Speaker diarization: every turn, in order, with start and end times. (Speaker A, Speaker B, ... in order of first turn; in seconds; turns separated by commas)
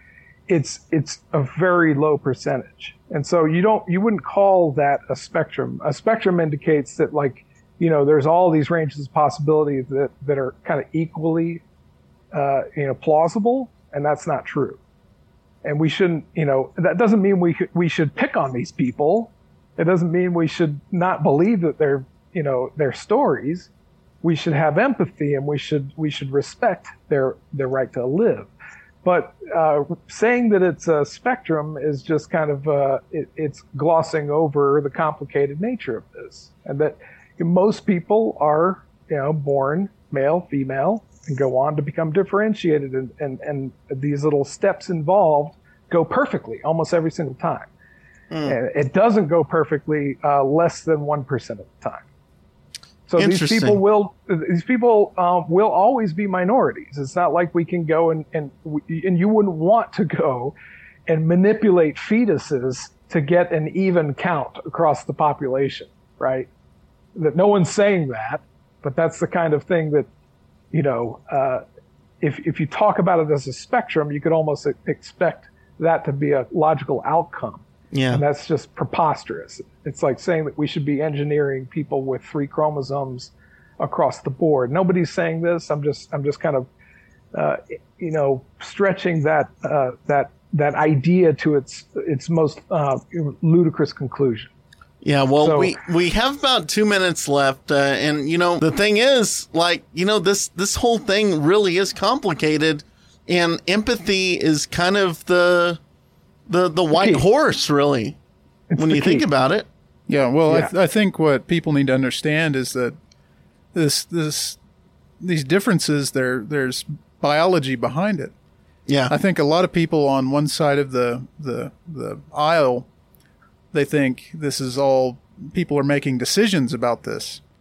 Speaker A: 0.5-11.6, Speaker A: 12.3-14.8, Speaker A: 15.6-23.7, Speaker A: 24.2-28.5, Speaker A: 29.0-47.7, Speaker B: 48.3-48.6, Speaker A: 48.5-52.0, Speaker A: 53.1-60.5, Speaker B: 53.2-53.8, Speaker A: 61.1-66.5, Speaker A: 67.2-70.1, Speaker A: 70.7-71.6, Speaker A: 72.2-86.7, Speaker B: 77.9-78.2, Speaker A: 87.3-94.5, Speaker B: 95.0-105.8, Speaker A: 95.4-95.8, Speaker B: 106.5-108.2, Speaker A: 107.0-107.2, Speaker A: 108.7-109.3, Speaker B: 108.8-109.7, Speaker C: 110.1-113.0, Speaker A: 110.5-110.7, Speaker C: 113.7-114.6, Speaker C: 115.2-118.3, Speaker B: 118.9-119.1, Speaker C: 119.1-122.9, Speaker C: 123.7-127.4